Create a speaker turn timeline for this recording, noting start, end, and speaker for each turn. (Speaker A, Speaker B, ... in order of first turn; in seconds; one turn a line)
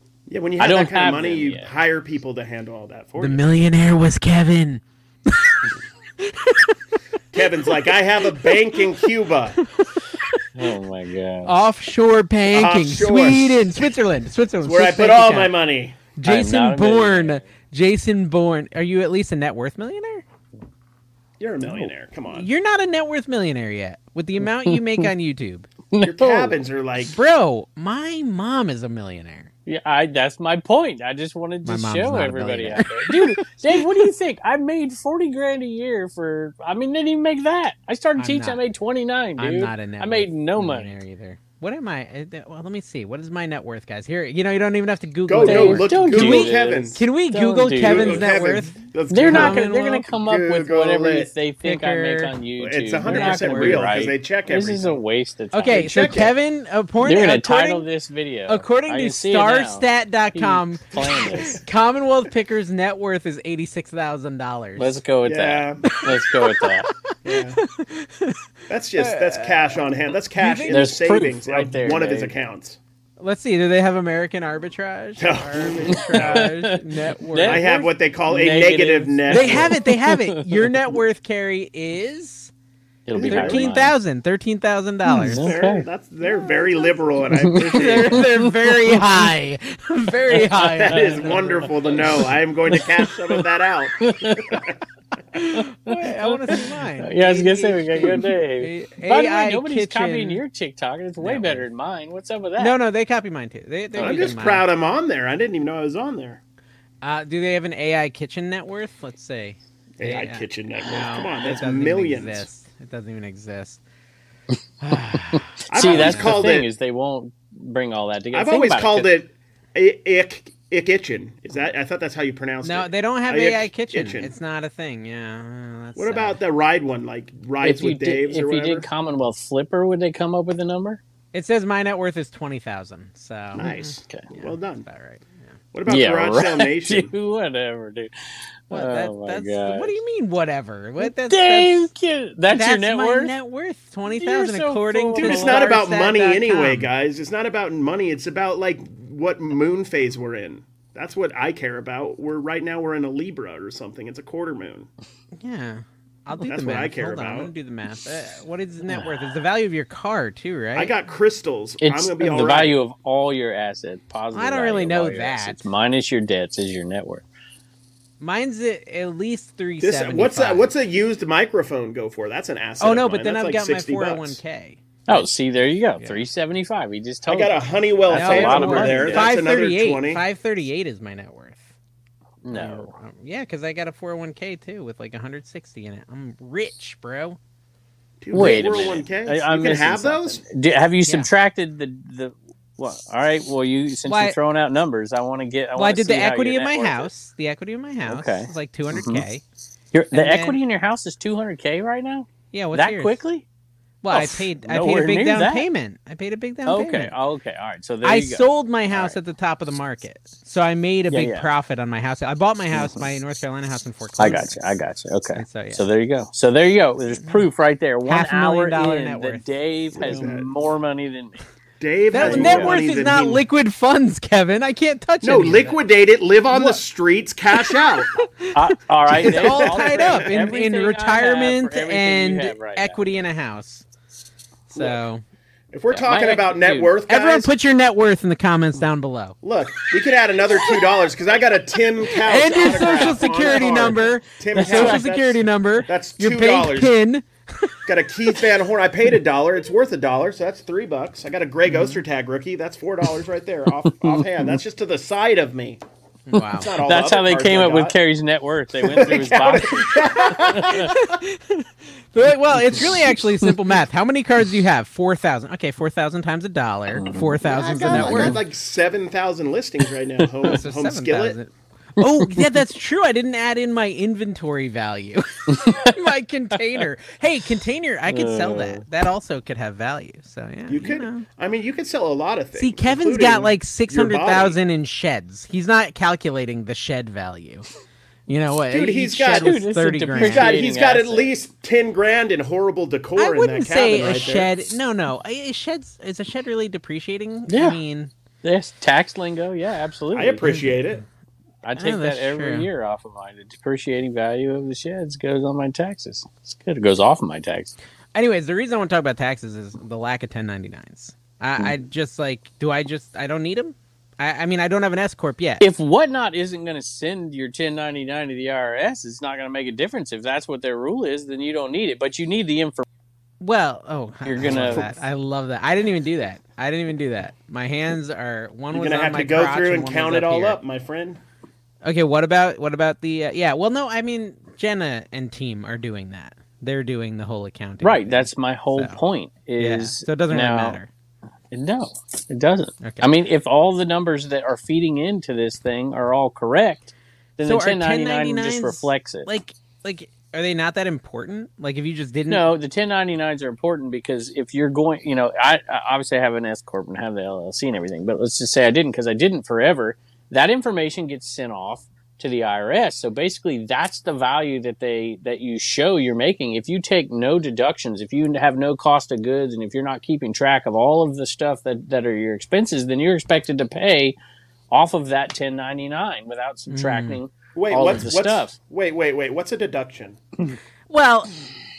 Speaker A: 0.3-3.5
Speaker B: 0.6-1.7
Speaker C: 3.2-6.7
Speaker A: 7.3-9.6
Speaker C: 8.4-9.1
Speaker C: 9.8-10.4
Speaker B: 10.6-11.5
Speaker C: 11.4-15.5
Speaker A: 12.5-13.5
Speaker A: 14.6-16.0
Speaker C: 16.2-20.2
Speaker B: 16.2-17.5
Speaker A: 21.4-22.5
Speaker C: 21.7-25.7
Speaker B: 24.4-25.1
Speaker B: 25.9-26.6
Speaker A: 26.0-27.2
Speaker C: 27.1-29.5
Speaker B: 29.7-40.9
Speaker C: 31.6-33.8
Speaker C: 38.2-38.6
Speaker C: 39.4-50.0
Speaker A: 45.3-47.0
Speaker B: 45.3-48.3
Speaker A: 47.8-51.3
Speaker B: 49.1-56.3
Speaker C: 51.6-52.4
Speaker A: 52.6-55.0
Speaker C: 53.0-54.0
Speaker C: 55.5-57.9
Speaker A: 55.7-56.3
Speaker B: 57.0-61.6
Speaker C: 58.5-65.0
Speaker B: 64.8-66.9
Speaker A: 65.2-66.0
Speaker C: 65.9-68.4
Speaker A: 67.2-67.6
Speaker A: 68.7-72.8
Speaker C: 69.0-69.8
Speaker C: 70.4-70.9
Speaker B: 70.7-72.3
Speaker C: 73.2-77.8
Speaker A: 75.2-76.5
Speaker B: 76.0-80.7
Speaker A: 77.4-79.8
Speaker C: 79.3-82.5
Speaker B: 83.1-84.0
Speaker A: 83.1-83.7
Speaker C: 83.2-85.5
Speaker B: 85.0-85.9
Speaker A: 85.2-88.3
Speaker C: 86.2-86.7
Speaker B: 87.4-89.3
Speaker C: 87.7-91.9
Speaker B: 90.3-93.4
Speaker A: 90.6-94.8
Speaker B: 94.0-94.6
Speaker C: 95.3-100.4
Speaker B: 95.5-102.8
Speaker C: 101.2-101.7
Speaker C: 102.6-104.7
Speaker A: 104.0-106.4
Speaker B: 104.0-104.5
Speaker C: 107.0-113.8
Speaker A: 110.0-112.5
Speaker C: 114.8-116.4
Speaker A: 115.7-116.7
Speaker B: 115.7-119.1
Speaker A: 118.3-124.3
Speaker C: 122.6-126.4
Speaker A: 126.0-128.9
Speaker B: 127.6-131.0
Speaker C: 131.3-135.4
Speaker B: 133.6-134.3
Speaker A: 133.6-134.9
Speaker A: 135.7-137.1
Speaker B: 135.9-140.0
Speaker C: 138.7-141.9
Speaker B: 141.0-143.4
Speaker C: 142.5-146.9
Speaker B: 144.1-145.7
Speaker A: 145.2-154.9
Speaker C: 155.4-160.9
Speaker A: 156.4-157.5
Speaker B: 158.9-159.2
Speaker A: 160.8-162.8
Speaker B: 161.8-167.2
Speaker C: 164.3-165.7
Speaker C: 168.2-170.7
Speaker A: 169.8-174.4
Speaker C: 172.8-175.3
Speaker B: 175.1-179.3
Speaker C: 176.0-176.2
Speaker A: 177.3-180.2
Speaker C: 178.1-181.7
Speaker B: 182.4-182.9
Speaker C: 182.5-187.4
Speaker A: 188.2-190.4
Speaker B: 188.3-197.1
Speaker C: 191.0-191.3
Speaker C: 194.1-194.4
Speaker C: 195.8-199.4
Speaker B: 198.1-199.2
Speaker B: 199.9-203.4
Speaker C: 200.1-200.6
Speaker C: 202.5-203.2
Speaker C: 204.0-207.2
Speaker B: 204.1-205.7
Speaker B: 206.7-209.2
Speaker C: 208.0-214.7
Speaker B: 211.1-211.5
Speaker B: 212.7-213.0
Speaker B: 214.2-221.4
Speaker C: 215.4-215.9
Speaker C: 217.1-217.4
Speaker C: 218.1-219.4
Speaker A: 219.9-220.5
Speaker A: 221.8-223.4
Speaker C: 222.1-225.8
Speaker B: 222.1-222.8
Speaker A: 225.2-228.2
Speaker C: 226.5-226.8
Speaker C: 227.5-233.9
Speaker B: 228.5-233.2
Speaker A: 229.1-230.3
Speaker C: 234.7-235.2
Speaker A: 235.7-237.5
Speaker B: 235.9-236.9
Speaker C: 237.1-239.4
Speaker A: 239.4-246.9
Speaker C: 242.1-247.8
Speaker B: 242.7-243.6
Speaker B: 244.6-245.1
Speaker A: 247.9-255.8
Speaker C: 251.7-252.0
Speaker B: 253.8-254.6
Speaker C: 256.3-256.7
Speaker B: 256.3-260.9
Speaker A: 256.4-257.9
Speaker A: 258.8-261.0
Speaker C: 260.8-268.4
Speaker B: 262.6-263.6
Speaker B: 266.9-268.4
Speaker A: 267.4-271.4
Speaker C: 270.4-281.3
Speaker B: 272.2-272.5
Speaker B: 275.5-276.0
Speaker B: 278.1-278.9
Speaker A: 280.7-284.6
Speaker C: 282.6-287.7
Speaker C: 288.3-290.6
Speaker A: 288.7-289.6
Speaker B: 289.3-291.3
Speaker A: 290.1-294.5
Speaker C: 293.2-298.1
Speaker B: 297.5-297.8
Speaker B: 298.4-300.4
Speaker A: 300.1-301.0
Speaker C: 300.4-300.8
Speaker B: 301.6-307.7
Speaker C: 301.7-302.7
Speaker C: 308.1-315.6
Speaker B: 315.6-322.9
Speaker C: 323.4-330.6
Speaker B: 324.2-324.9
Speaker A: 324.4-324.9
Speaker A: 328.7-331.2
Speaker C: 331.8-339.0
Speaker B: 337.8-340.8
Speaker C: 339.6-340.9
Speaker B: 341.5-349.3
Speaker C: 342.8-343.1
Speaker C: 347.4-352.5
Speaker B: 352.3-374.2
Speaker B: 374.7-378.6
Speaker C: 376.7-377.2
Speaker A: 377.6-380.2
Speaker C: 380.9-381.3